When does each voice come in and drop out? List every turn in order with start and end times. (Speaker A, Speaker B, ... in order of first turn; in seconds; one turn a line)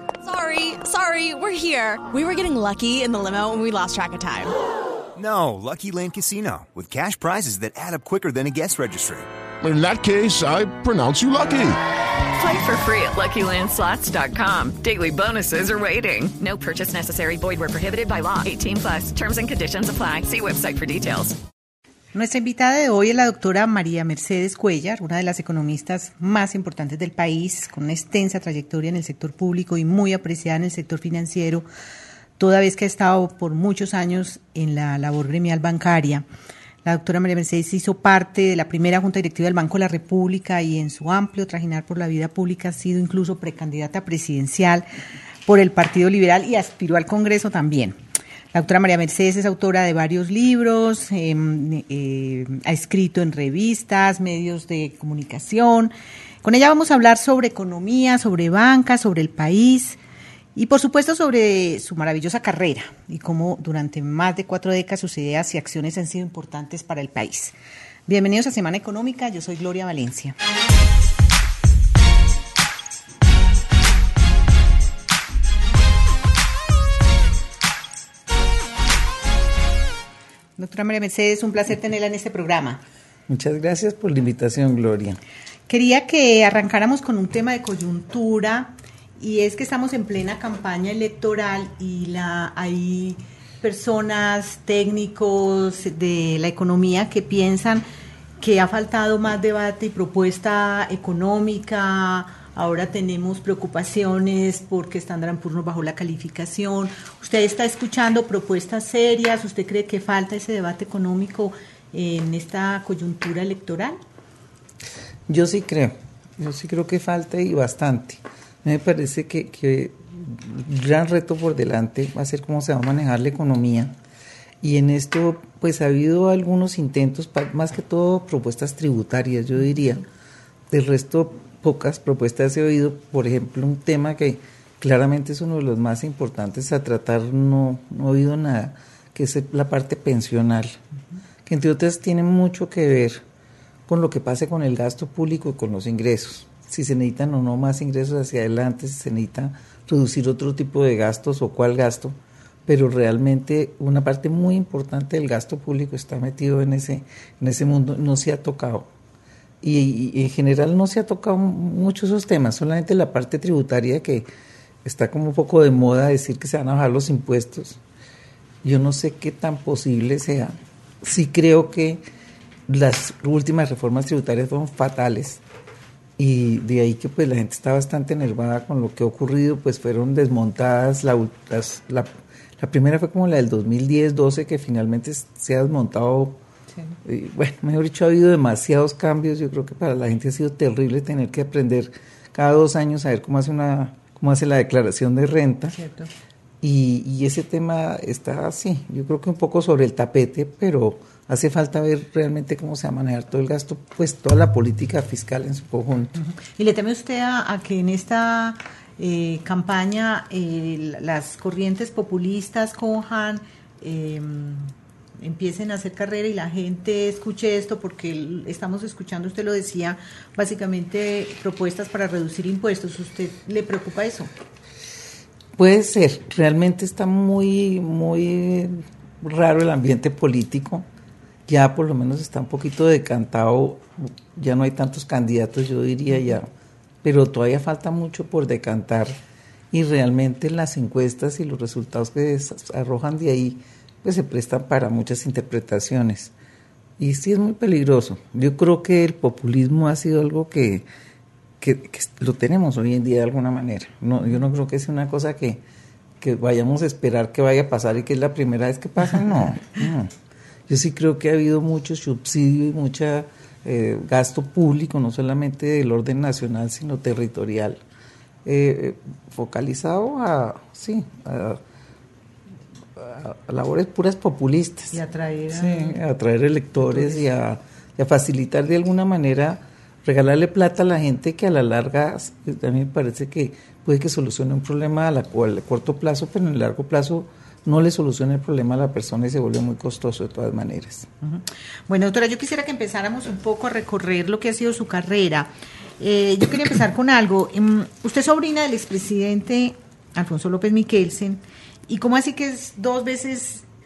Speaker A: 0.2-4.5
Speaker B: 5.2-9.3
Speaker C: 9.6-11.8
Speaker D: 12.3-21.4
Speaker E: 22.1-31.6
Speaker E: 32.4-36.2
Speaker E: 36.8-44.9
Speaker E: 45.5-48.0
Speaker E: 48.5-60.0
Speaker E: 60.5-67.5
Speaker E: 68.1-70.3
Speaker E: 80.6-82.8
Speaker F: 83.3-85.2
Speaker E: 85.7-97.8
Speaker E: 98.4-114.0
Speaker F: 115.3-123.9
Speaker F: 124.6-130.0
Speaker F: 130.7-140.8
Speaker F: 141.4-143.2
Speaker F: 143.9-158.9
Speaker F: 159.6-164.3
Speaker F: 164.8-167.8
Speaker F: 168.6-172.0
Speaker F: 172.7-175.4
Speaker F: 176.2-186.4
Speaker F: 187.0-195.8
Speaker E: 195.7-196.1
Speaker F: 196.6-206.2
Speaker E: 206.2-224.3
Speaker F: 225.6-230.8
Speaker F: 231.5-236.5
Speaker F: 237.0-239.2
Speaker F: 239.7-246.3
Speaker F: 247.0-250.8
Speaker F: 251.6-255.6
Speaker F: 256.2-260.1
Speaker F: 260.7-267.8
Speaker F: 268.4-271.6
Speaker F: 273.0-275.0
Speaker E: 274.9-276.0
Speaker F: 275.5-291.1
Speaker E: 276.8-277.2
Speaker E: 291.2-303.6